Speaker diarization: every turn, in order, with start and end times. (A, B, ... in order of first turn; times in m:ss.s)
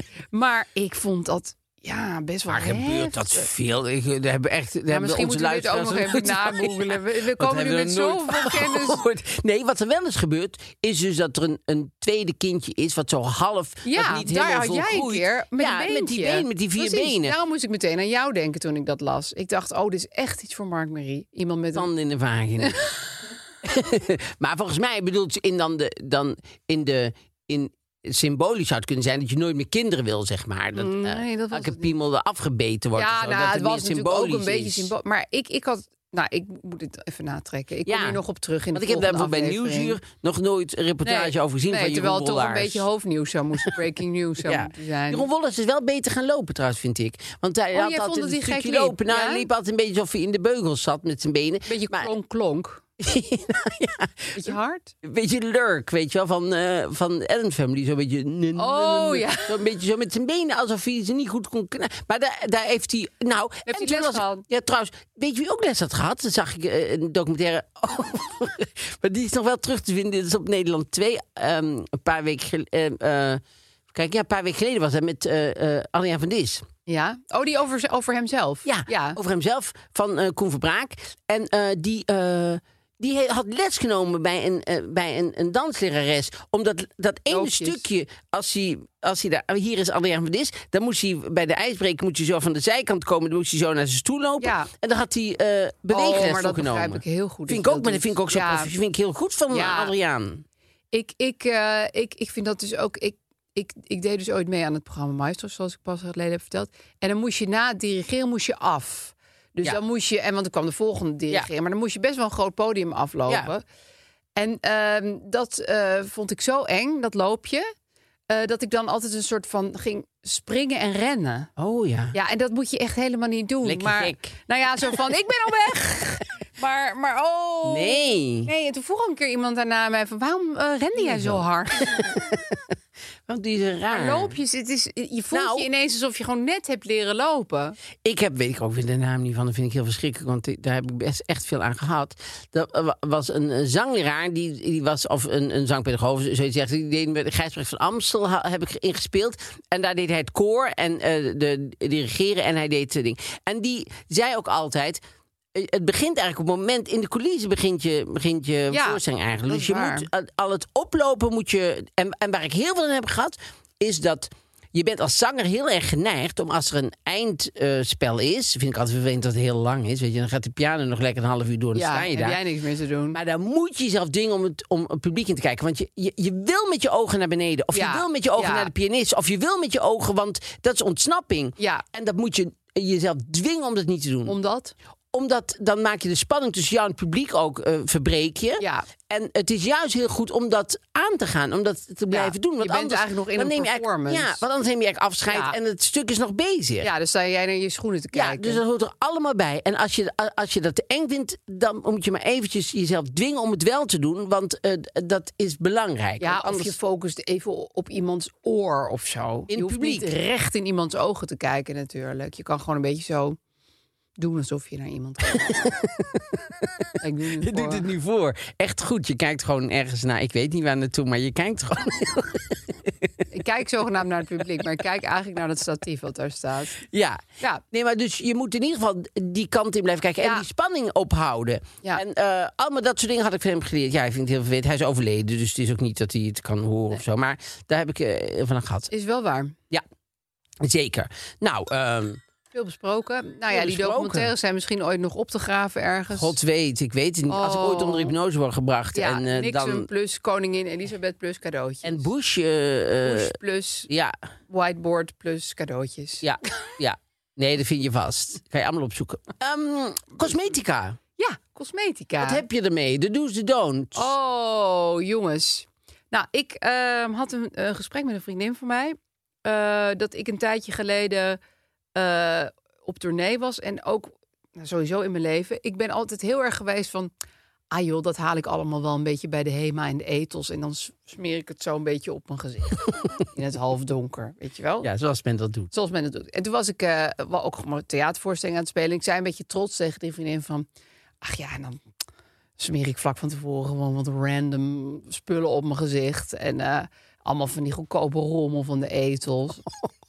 0:00.3-0:03.5 A
0:02.5-0:17.4 B
0:04.9-0:09.0 A
0:13.8-0:21.9 A
0:21.7-0:22.8 B
0:22.6-0:22.9 A
0:23.6-0:34.9 B
0:30.7-0:31.9 A
0:33.0-0:40.0 A
0:37.8-0:38.2 B
0:38.7-0:42.8 B
0:41.0-0:45.2 A
0:44.4-0:52.1 B
0:47.7-0:49.5 A
0:51.7-0:52.8 A
0:53.0-1:16.7 B
0:54.3-0:54.9 A
0:58.6-0:59.5 A
1:03.6-1:04.4 A
1:16.9-1:19.2 A
1:18.6-1:40.4 B
1:27.3-1:27.8 A
1:34.4-1:34.7 A
1:35.9-1:38.7 A
1:39.5-1:39.9 A
1:40.9-1:53.6 A
1:54.4-1:57.7 A
1:58.3-2:01.5 A
2:01.6-2:02.2 B
2:02.1-2:12.0 A
2:03.6-2:05.0 B
2:07.6-2:08.5 B
2:11.0-2:12.6 B
2:13.3-2:14.4 B
2:13.9-2:17.8 A
2:15.3-2:15.7 B
2:18.0-2:35.0 B
2:35.5-2:52.4 B
2:38.7-2:40.1 A
2:51.7-2:53.2 A
2:53.1-3:04.4 B
2:57.7-2:58.7 A
3:01.6-3:01.8 A
3:04.2-3:04.7 A
3:05.1-3:16.9 B
3:08.6-3:08.9 A
3:12.1-3:14.4 A
3:15.3-3:15.6 A
3:16.8-3:18.6 A
3:18.1-3:26.8 B
3:26.2-3:33.4 A
3:29.5-3:30.2 B
3:34.2-3:35.6 A
3:35.3-3:43.2 B
3:37.0-3:37.9 A
3:43.3-3:46.8 A
3:46.8-3:58.9 B
3:50.2-3:50.4 A
3:58.9-3:59.5 A
4:00.6-4:02.2 B
4:02.5-4:06.4 A
4:03.5-4:04.3 B
4:06.1-4:09.9 B
4:07.3-4:08.1 A
4:08.9-4:12.1 A
4:11.8-4:13.3 B
4:13.0-4:13.9 A
4:13.9-4:14.2 B
4:14.5-4:16.2 A
4:16.2-4:21.0 B
4:21.2-4:22.4 A
4:22.2-4:24.1 B
4:23.9-4:31.4 A
4:31.9-4:37.1 A
4:37.7-4:44.9 A
4:44.8-4:45.7 B
4:45.7-4:50.7 A
4:51.2-4:51.8 A
4:52.6-4:59.6 A